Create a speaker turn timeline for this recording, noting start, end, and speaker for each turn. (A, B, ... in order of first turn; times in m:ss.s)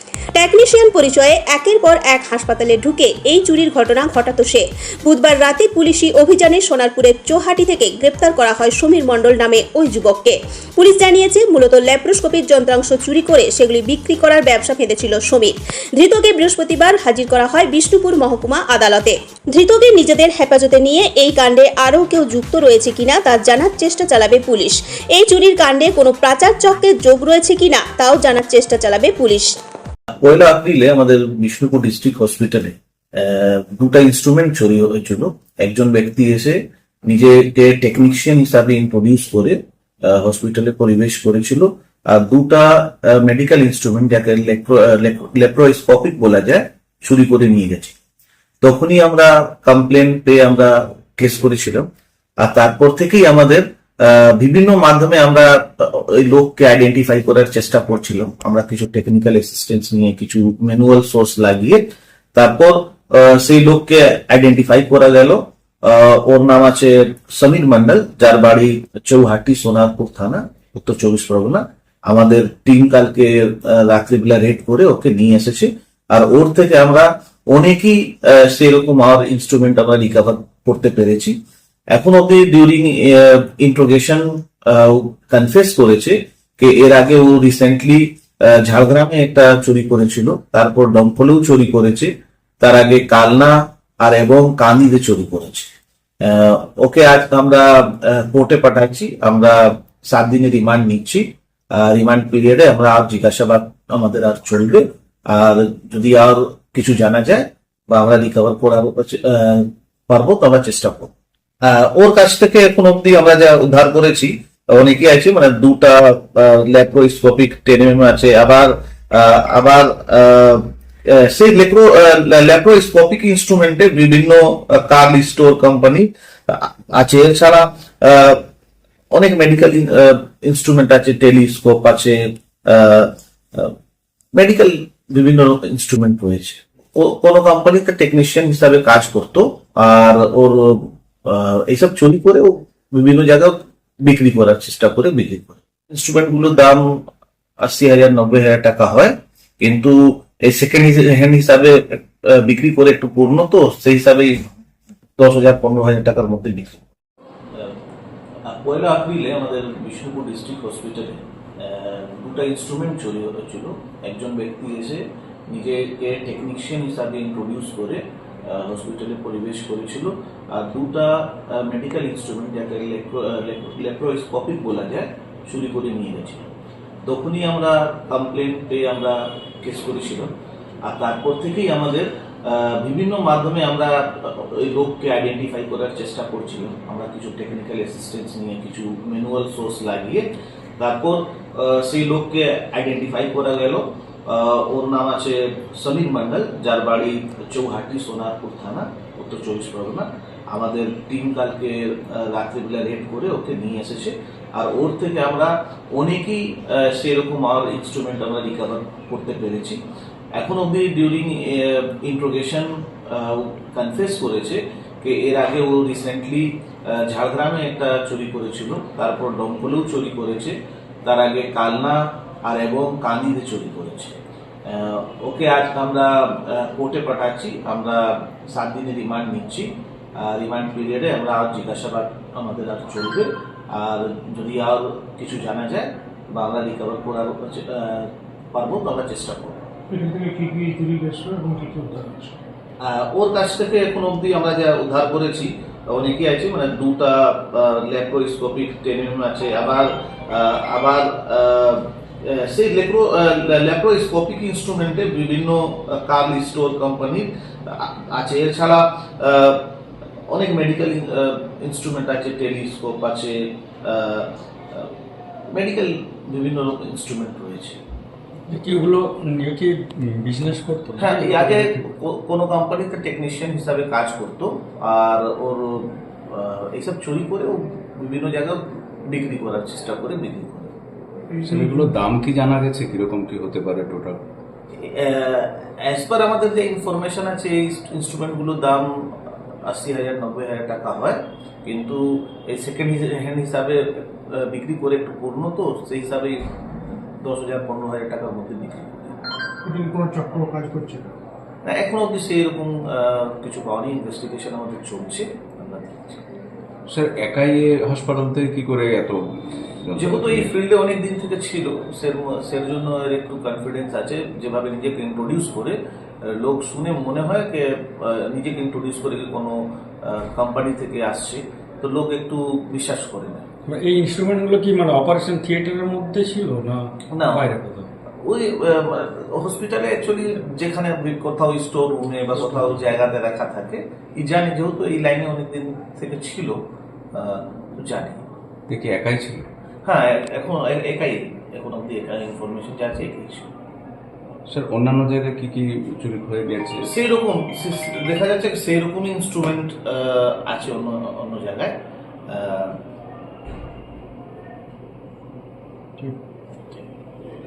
0:00.3-0:29.5 A
0:30.2-0:47.9 B
0:48.6-0:51.9 B
0:52.4-1:01.8 B
1:02.3-1:21.3 B
1:21.9-1:35.7 B
1:36.2-1:51.1 B
1:51.6-2:08.4 B
2:09.1-2:13.7 B
2:14.4-2:27.0 B
2:27.6-2:34.4 B
2:35.2-2:36.8 B
2:38.4-2:56.5 B
2:57.0-3:00.3 B
3:00.8-3:10.3 B
3:10.8-3:29.8 B
3:30.4-3:59.6 B
3:59.9-4:02.4 C
4:02.8-4:19.7 B
4:20.3-4:24.9 B
4:25.5-4:27.8 B
4:28.5-4:31.8 D
4:31.0-4:40.7 B
4:41.3-4:41.9 C
4:41.5-4:44.2 E
4:44.7-4:48.9 B
4:49.7-4:59.2 B
4:59.6-5:01.1 C
5:01.6-5:05.8 B
5:06.9-5:09.2 E
5:09.8-5:10.5 E
5:10.0-5:23.5 B
5:23.7-5:27.9 D
5:27.1-5:27.5 B
5:28.2-5:36.6 B
5:37.1-5:38.2 B
5:38.7-5:39.4 E
5:39.8-5:43.5 B
5:44.5-5:46.9 E
5:46.8-5:51.7 B
5:52.3-5:52.8 B